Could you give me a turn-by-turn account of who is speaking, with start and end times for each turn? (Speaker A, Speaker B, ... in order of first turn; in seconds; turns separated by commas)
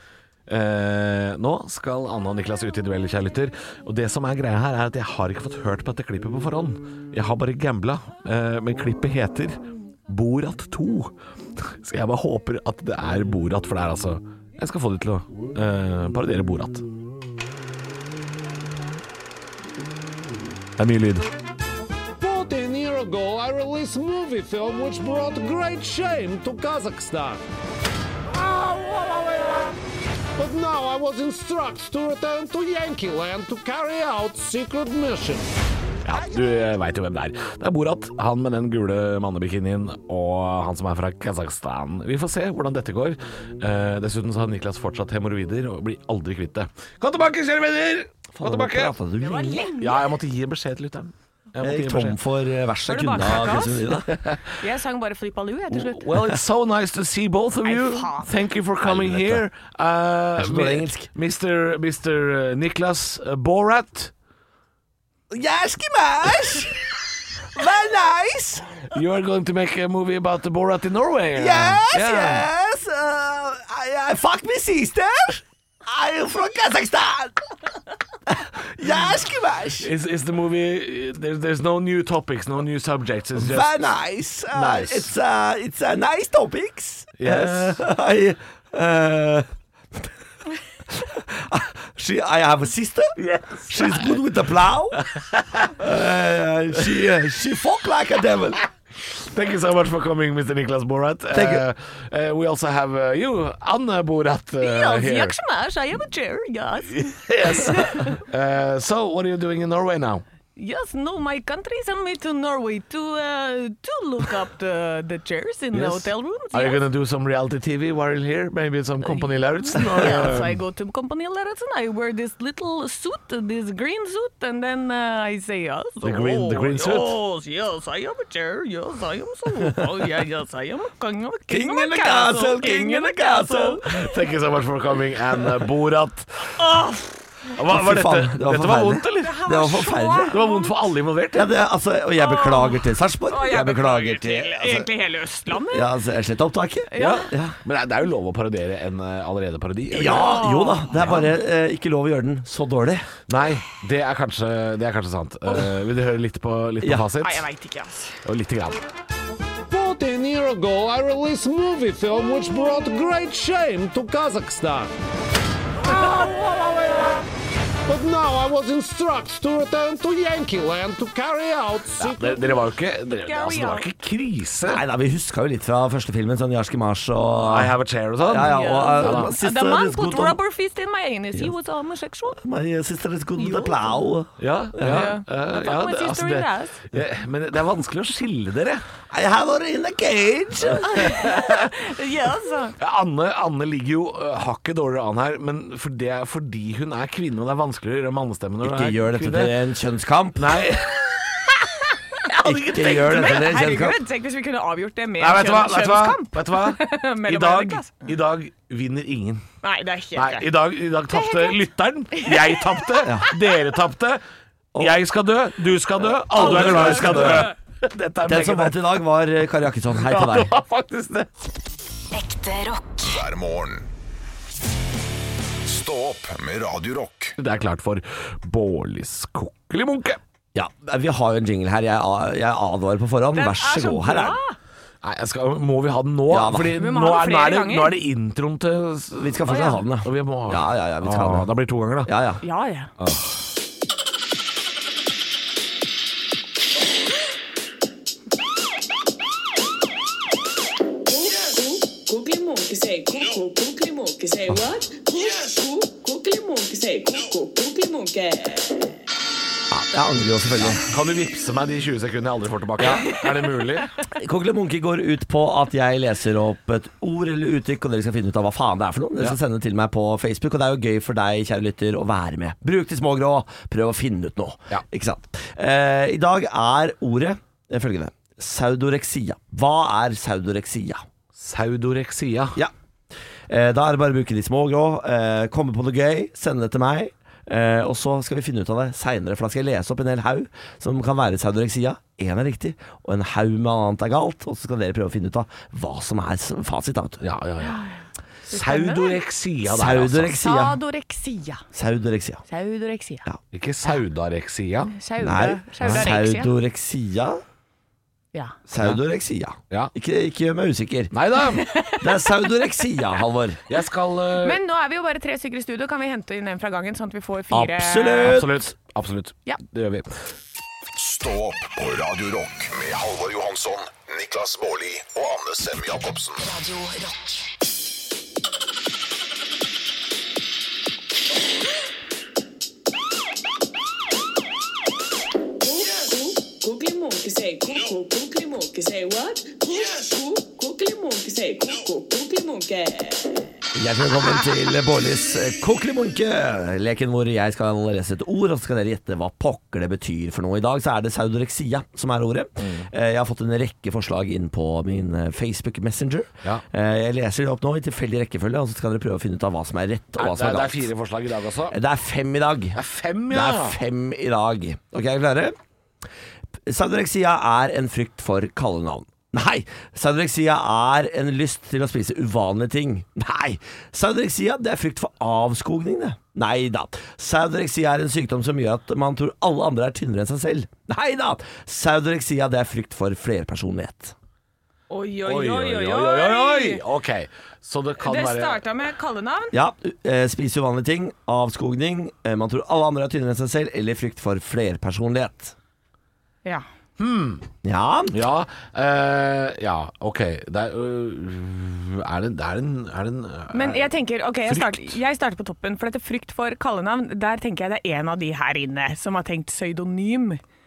Speaker A: 0.5-16.9, Speaker A: 20.8-21.3, Speaker B: 22.2-27.4, Speaker B: 28.3-29.7, Speaker B: 30.3-35.5, Speaker A: 36.0-48.9, Speaker C: 48.4-49.7, Speaker D: 49.2-50.1, Speaker A: 49.8-52.2, Speaker C: 51.6-54.2, Speaker D: 52.9-53.8, Speaker A: 54.1-54.5, Speaker D: 54.6-56.0, Speaker A: 55.7-64.1, Speaker D: 57.6-58.3, Speaker C: 58.8-59.4, Speaker C: 60.4-61.1, Speaker C: 65.3-66.9, Speaker C: 67.5-68.8, Speaker A: 68.9-72.5, Speaker C: 71.3-77.4, Speaker C: 78.3-79.9, Speaker A: 79.8-83.8, Speaker C: 83.4-89.5, Speaker A: 84.5-85.1, Speaker A: 87.2-87.8, Speaker C: 90.9-95.0, Speaker A: 93.2-94.1, Speaker A: 95.0-95.7, Speaker C: 95.8-98.6, Speaker A: 99.0-105.3, Speaker C: 101.3-101.6, Speaker D: 104.6-108.2, Speaker A: 106.9-110.2, Speaker D: 110.5-116.8, Speaker A: 115.7-120.6, Speaker D: 119.1-134.0, Speaker A: 126.0-127.2, Speaker C: 131.5-133.9, Speaker A: 133.9-136.6, Speaker D: 136.6-137.1, Speaker A: 137.6-139.4, Speaker C: 137.6-140.4, Speaker D: 139.2-140.7, Speaker A: 140.3-141.5, Speaker C: 141.3-144.9, Speaker D: 142.2-145.9, Speaker C: 145.6-147.6, Speaker D: 146.9-147.3, Speaker A: 147.0-150.3, Speaker C: 149.9-153.1, Speaker D: 150.0-150.9, Speaker A: 150.9-151.3, Speaker A: 153.3-157.4, Speaker D: 157.2-158.2, Speaker A: 158.2-158.8, Speaker B: 159.7-164.9, Speaker B: 165.8-167.2, Speaker B: 167.8-172.4, Speaker A: 172.0-174.8, Speaker D: 173.1-173.9, Speaker C: 174.6-180.4, Speaker A: 177.4-179.3, Speaker D: 178.4-182.4, Speaker C: 182.4-185.1, Speaker D: 183.4-183.8, Speaker A: 184.4-188.8, Speaker D: 184.8-186.8, Speaker C: 189.1-191.2, Speaker D: 190.9-192.7, Speaker A: 192.8-199.5, Speaker C: 198.6-200.6, Speaker A: 200.4-201.5, Speaker A: 202.3-203.2, Speaker C: 202.4-204.0, Speaker D: 202.5-207.9, Speaker A: 205.2-209.4, Speaker D: 209.6-210.5, Speaker A: 210.1-214.2, Speaker D: 211.1-211.6, Speaker D: 212.1-212.6, Speaker C: 213.0-213.3, Speaker A: 214.8-218.9, Speaker C: 216.1-217.5, Speaker D: 216.4-217.4, Speaker C: 218.2-220.5, Speaker A: 219.9-221.3, Speaker E: 222.1-223.1, Speaker F: 223.0-223.9, Speaker F: 225.7-227.3, Speaker A: 227.4-230.2, Speaker C: 230.5-234.4, Speaker D: 233.3-234.5, Speaker A: 235.0-242.1, Speaker C: 236.3-236.7, Speaker D: 236.8-238.0, Speaker C: 239.2-241.5, Speaker D: 239.5-239.8, Speaker C: 242.0-242.4, Speaker D: 242.4-242.9, Speaker A: 243.0-243.3, Speaker D: 251.1-258.9, Speaker C: 259.7-260.8, Speaker A: 260.6-263.9, Speaker C: 262.8-263.1, Speaker C: 264.1-281.0, Speaker A: 281.4-282.6, Speaker C: 283.5-297.2, Speaker A: 297.2-297.8, Speaker D: 297.6-297.9, Speaker A: 298.5-300.4, Speaker D: 298.5-299.2, Speaker C: 299.6-300.8, Speaker D: 300.4-301.6, Speaker C: 301.7-302.4, Speaker D: 302.5-303.2, Speaker A: 303.5-304.9, Speaker D: 305.0-306.5, Speaker C: 305.2-307.4, Speaker C: 308.7-311.1, Speaker A: 311.1-311.7, Speaker D: 311.6-312.2, Speaker C: 312.0-313.6, Speaker A: 313.7-314.6, Speaker D: 314.4-318.3, Speaker C: 317.5-318.7, Speaker A: 318.2-320.1, Speaker F: 320.9-326.4, Speaker E: 326.4-327.5, Speaker D: 335.6-343.3, Speaker C: 343.7-360.9, Speaker A: 352.6-352.9, Speaker A: 360.2-361.8, Speaker C: 361.7-365.5, Speaker A: 362.7-363.8, Speaker C: 366.6-384.1, Speaker D: 384.9-386.8, Speaker A: 385.2-388.6, Speaker D: 388.0-389.5, Speaker C: 389.5-395.5, Speaker A: 397.0-397.4, Speaker C: 397.6-398.2, Speaker A: 398.1-403.9, Speaker D: 403.5-410.4, Speaker A: 404.4-404.9